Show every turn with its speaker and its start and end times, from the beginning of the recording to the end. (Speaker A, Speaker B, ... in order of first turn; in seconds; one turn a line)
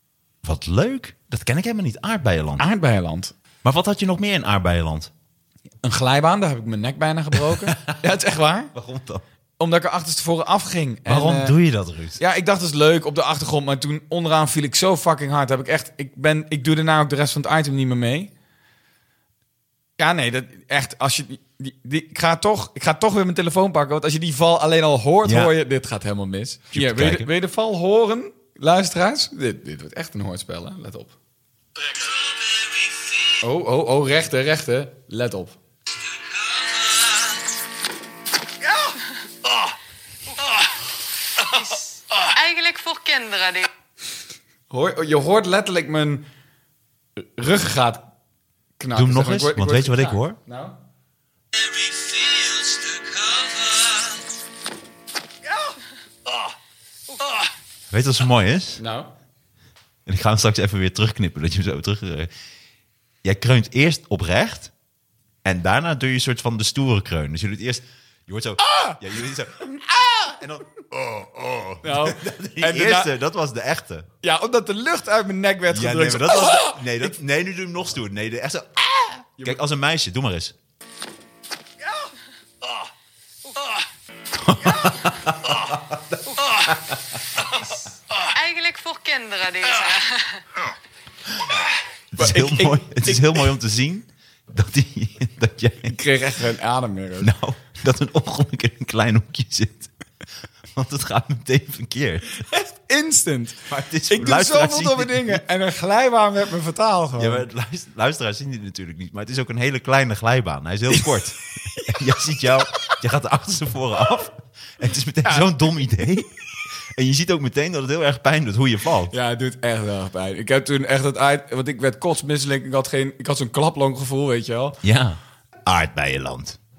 Speaker A: 0.4-2.6
Speaker B: 2.6-3.3
Speaker A: 3.6-5.1
Speaker B: 5.8-8.7
Speaker A: 7.5-8.0
Speaker A: 8.7-9.2
Speaker B: 9.6-11.6
Speaker A: 11.1-12.2
Speaker B: 12.2-18.3
Speaker B: 20.0-31.1
Speaker A: 25.2-25.5
Speaker A: 26.7-27.3
Speaker B: 33.4-35.6
Speaker C: 42.2-43.7
Speaker B: 44.7-46.2
Speaker B: 47.2-48.1
Speaker B: 48.8-50.8
Speaker A: 48.9-50.4
Speaker C: 52.1-53.2
Speaker A: 57.9-58.8
Speaker B: 58.8-59.1
Speaker A: 60.1-62.3
Speaker A: 63.2-64.7
Speaker A: 65.4-74.1
Speaker B: 68.6-69.0
Speaker B: 71.8-73.1
Speaker B: 74.2-77.1
Speaker A: 75.7-80.5
Speaker A: 84.3-87.0
Speaker C: 88.3-90.4
Speaker A: 92.1-96.0
Speaker B: 92.2-93.5
Speaker B: 95.9-97.3
Speaker A: 97.2-99.9
Speaker A: 100.7-102.4
Speaker B: 102.4-107.5
Speaker A: 103.7-105.4
Speaker A: 107.2-116.3
Speaker B: 115.2-115.5
Speaker A: 116.9-119.1
Speaker B: 119.1-124.8
Speaker A: 124.8-126.6